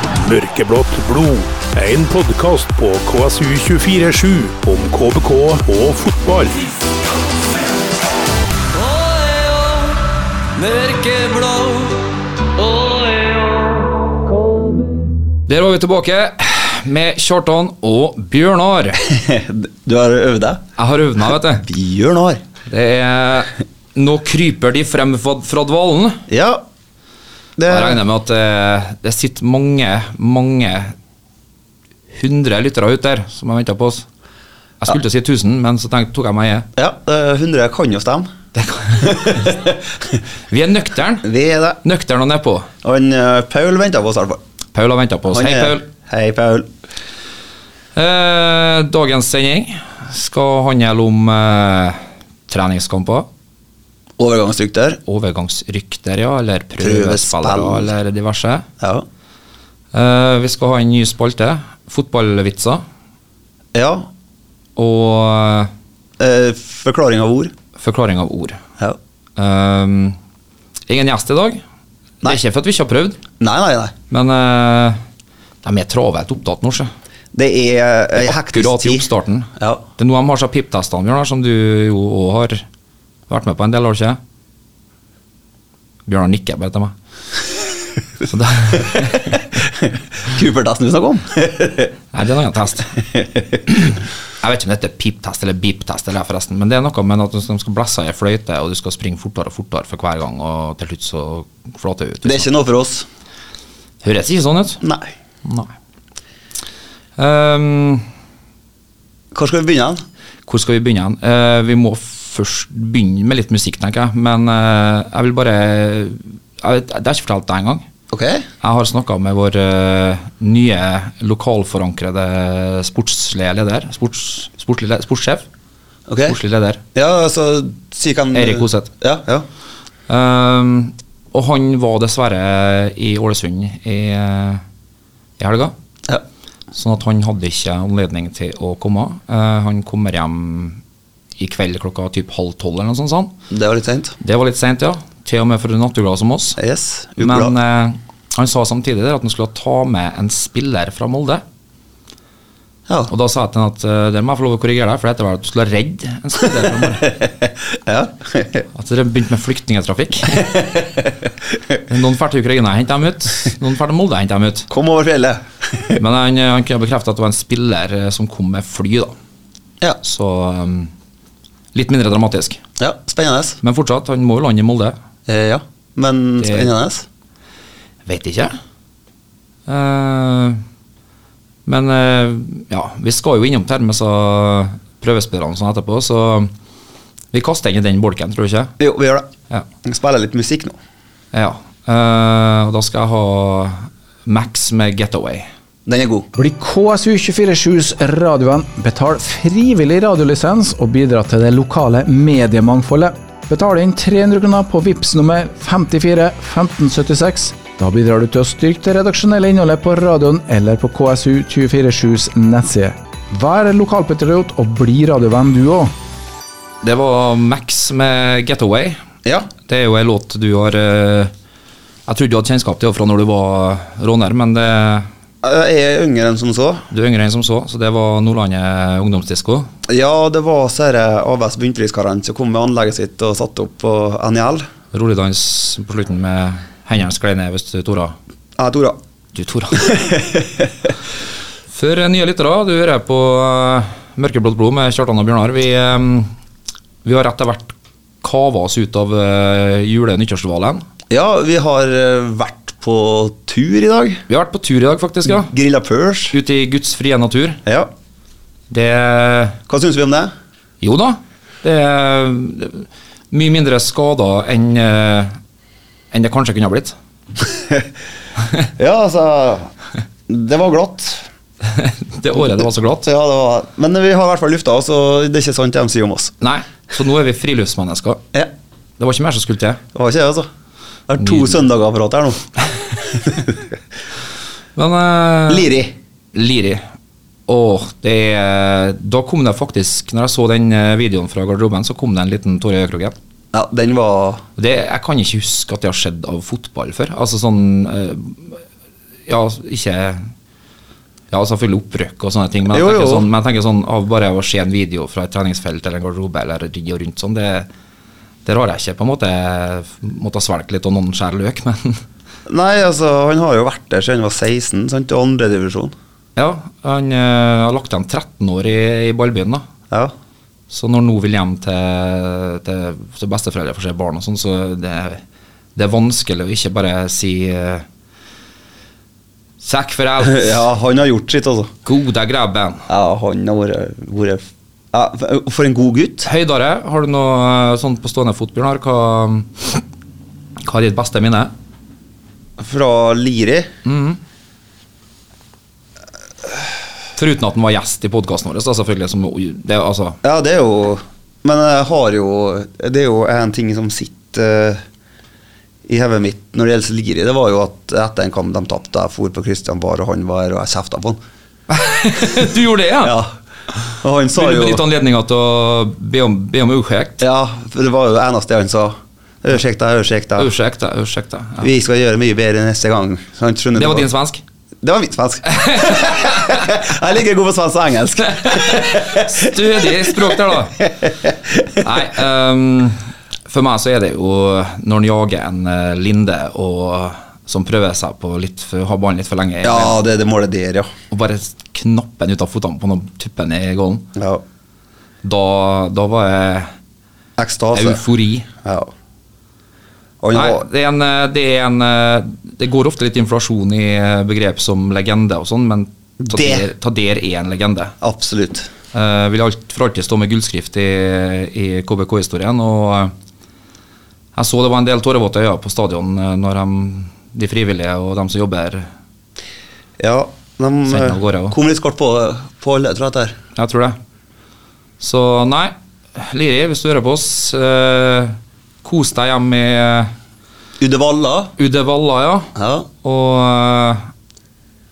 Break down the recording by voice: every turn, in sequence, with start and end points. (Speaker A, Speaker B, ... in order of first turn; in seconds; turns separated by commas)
Speaker A: 0.2-6.6, Speaker B: 8.9-9.8, Speaker B: 10.6-12.0, Speaker B: 12.6-13.7, Speaker B: 15.5-19.0, Speaker C: 19.0-20.6, Speaker B: 20.8-21.7, Speaker C: 21.6-22.4, Speaker B: 22.7-26.2, Speaker C: 26.3-26.6, Speaker C: 27.6-28.0, Speaker B: 27.7-30.9, Speaker B: 32.1-34.1, Speaker B: 34.8-36.7, Speaker C: 36.8-38.3, Speaker B: 38.5-39.7, Speaker C: 39.0-40.0, Speaker B: 40.5-41.3, Speaker C: 41.2-41.8, Speaker B: 41.8-42.7, Speaker C: 42.8-44.4, Speaker B: 44.7-45.8, Speaker C: 45.3-46.7, Speaker B: 48.0-53.3, Speaker C: 54.2-55.0, Speaker B: 55.1-58.7, Speaker C: 56.8-57.9, Speaker C: 58.8-59.1, Speaker B: 59.9-62.8, Speaker C: 63.7-64.1, Speaker B: 64.8-65.7, Speaker C: 66.2-67.5, Speaker B: 67.8-68.6, Speaker B: 69.4-70.2, Speaker B: 70.9-71.6, Speaker B: 72.2-73.2, Speaker C: 73.4-73.9, Speaker B: 74.1-75.0, Speaker B: 75.6-76.9, Speaker C: 77.3-79.8, Speaker B: 78.2-82.6, Speaker B: 83.3-84.2, Speaker B: 86.1-86.9, Speaker B: 88.2-89.5, Speaker C: 88.9-91.9, Speaker B: 92.1-93.0, Speaker C: 93.0-93.6, Speaker B: 93.7-102.5, Speaker C: 102.2-103.1, Speaker B: 104.0-104.8, Speaker C: 104.8-105.1, Speaker B: 105.5-105.7, Speaker B: 107.2-108.1, Speaker C: 109.3-110.0, Speaker B: 110.5-117.9, Speaker C: 118.1-118.5, Speaker B: 118.6-125.5, Speaker C: 126.1-126.4, Speaker B: 126.3-126.8, Speaker C: 126.9-129.5, Speaker B: 128.3-128.9, Speaker B: 130.1-134.6, Speaker B: 135.4-135.7, Speaker B: 136.8-140.8, Speaker B: 141.4-143.3, Speaker C: 143.5-144.2, Speaker B: 144.2-146.6, Speaker C: 146.6-147.6, Speaker B: 147.2-151.4, Speaker B: 153.1-157.1, Speaker C: 157.0-158.7, Speaker B: 158.7-160.6, Speaker C: 160.4-161.1, Speaker B: 161.9-164.7, Speaker C: 164.7-166.0, Speaker B: 165.9-169.2, Speaker B: 170.0-170.9, Speaker B: 171.7-172.6, Speaker C: 172.8-173.6, Speaker B: 173.6-174.9, Speaker C: 175.3-177.1, Speaker B: 176.4-176.7, Speaker B: 178.1-178.6, Speaker B: 179.7-180.6, Speaker B: 181.7-186.5, Speaker B: 187.3-188.7, Speaker C: 188.8-189.3, Speaker C: 189.8-190.8, Speaker B: 191.3-195.5, Speaker C: 195.9-196.3, Speaker D: 196.4-215.9, Speaker B: 216.8-219.0, Speaker C: 219.2-219.5, Speaker B: 219.7-221.3, Speaker B: 222.1-225.1, Speaker C: 225.4-226.9, Speaker B: 226.9-229.7, Speaker C: 229.9-234.7, Speaker B: 234.9-238.2, Speaker C: 238.6-239.0, Speaker B: 239.3-239.9, Speaker C: 239.8-240.7, Speaker B: 241.7-246.3, Speaker B: 247.0-250.8, Speaker C: 251.1-254.2, Speaker B: 254.3-255.5, Speaker C: 255.3-256.4, Speaker B: 256.3-257.6, Speaker B: 258.7-259.6, Speaker C: 259.7-260.3, Speaker B: 260.8-265.4, Speaker B: 266.1-267.0, Speaker C: 267.5-267.9, Speaker C: 268.8-269.7, Speaker C: 270.3-271.2, Speaker B: 271.6-273.1, Speaker C: 273.1-276.3, Speaker B: 276.4-278.2, Speaker B: 279.0-279.8, Speaker C: 279.9-280.5, Speaker C: 281.1-282.5, Speaker B: 281.2-281.6, Speaker C: 283.0-283.6, Speaker B: 284.8-285.7, Speaker C: 285.5-286.0, Speaker B: 286.3-286.8, Speaker B: 287.5-293.2, Speaker C: 293.5-294.4, Speaker B: 294.6-298.6, Speaker B: 299.3-300.3, Speaker B: 301.3-307.7, Speaker C: 302.7-303.3, Speaker B: 308.4-312.0, Speaker C: 312.5-315.9, Speaker B: 316.4-319.6, Speaker B: 320.7-325.2, Speaker B: 325.8-327.9, Speaker B: 329.6-330.7, Speaker C: 330.2-331.7, Speaker B: 331.9-332.8, Speaker C: 332.9-336.3, Speaker B: 336.2-339.8, Speaker B: 340.6-341.5, Speaker C: 342.6-343.7, Speaker B: 343.9-344.2, Speaker B: 347.2-350.2, Speaker C: 350.2-354.8, Speaker C: 355.9-361.2, Speaker B: 361.7-363.2, Speaker C: 363.0-363.3, Speaker C: 364.0-364.8, Speaker B: 364.4-367.2, Speaker C: 367.2-370.5, Speaker B: 370.4-371.7, Speaker C: 371.6-374.1, Speaker B: 373.8-374.4, Speaker C: 374.8-381.7, Speaker B: 375.5-376.7, Speaker B: 378.2-380.9, Speaker B: 381.8-390.0, Speaker C: 389.6-390.9, Speaker B: 391.1-394.1, Speaker C: 394.1-394.4, Speaker B: 395.2-396.7, Speaker C: 397.4-398.0, Speaker B: 397.7-398.5, Speaker C: 398.6-398.9, Speaker C: 400.2-400.7, Speaker B: 400.3-407.9, Speaker C: 406.2-406.7, Speaker C: 408.0-408.7, Speaker B: 408.9-413.1, Speaker B: 414.4-418.9, Speaker C: 420.0-423.4, Speaker B: 420.9-421.6, Speaker B: 423.6-424.0, Speaker B: 425.0-430.1, Speaker C: 430.8-431.6, Speaker B: 431.6-432.5, Speaker C: 432.6-432.9, Speaker B: 433.0-434.1